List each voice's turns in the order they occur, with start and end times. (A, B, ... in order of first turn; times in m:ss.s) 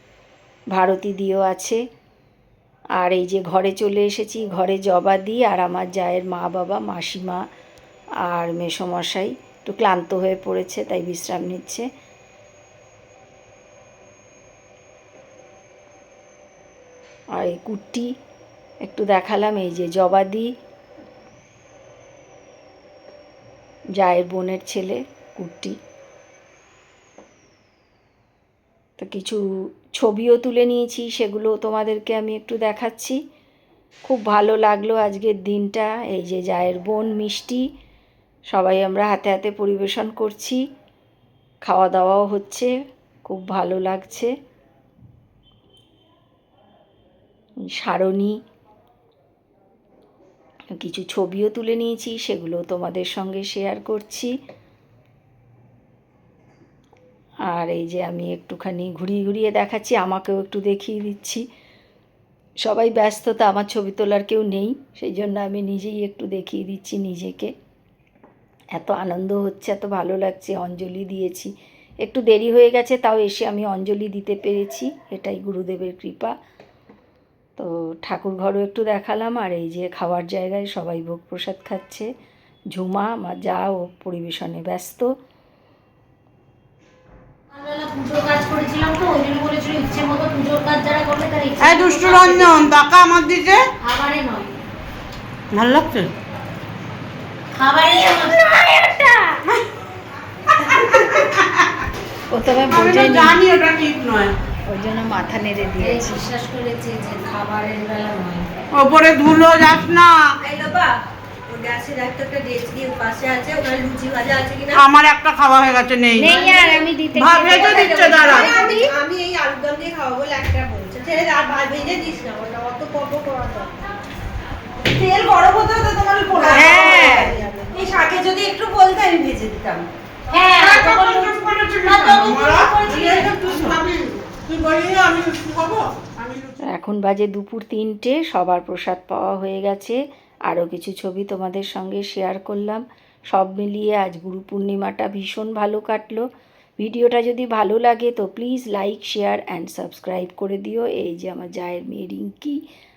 0:00.7-0:01.8 A
0:03.0-0:07.4 A
0:08.3-0:11.8 A
0:17.4-0:18.1 A
0:18.8-0:20.5 A
0:24.0-0:25.8 A
0:29.0-0:29.4 A
0:30.0-0:33.2 A
0:34.0-0:37.6 A
0:38.5-0:40.6 A
0:41.6-0:42.7 A
0:43.2-0:44.3 A
0:47.7-0:48.4 A
0:50.8-0:54.3 A
0:57.5-1:01.4 A
1:02.6-1:07.5 A
1:08.8-1:16.3 A
1:17.6-1:22.1 A
1:22.7-1:25.1 A
1:27.5-1:32.7 B
1:31.6-1:33.6 C
1:33.8-1:34.5 B
1:35.5-1:36.1 C
1:37.5-1:39.1 B
1:42.3-1:43.4 A
1:42.7-1:44.3 C
1:44.7-1:46.3 A
1:45.8-1:48.5 B
1:48.7-1:50.2 C
1:50.4-1:50.9 D
1:51.5-1:54.8 D
1:54.7-1:58.5 C
1:56.2-1:58.9 B
1:56.2-1:56.7 D
1:57.4-2:03.7 D
2:04.9-2:09.8 D
2:06.5-2:07.3 C
2:06.7-2:07.1 B
2:10.3-2:13.2 B
2:10.9-2:13.8 C
2:12.8-2:14.4 D
2:14.5-2:16.6 C
2:16.6-2:26.2 A
2:26.8-2:32.6 A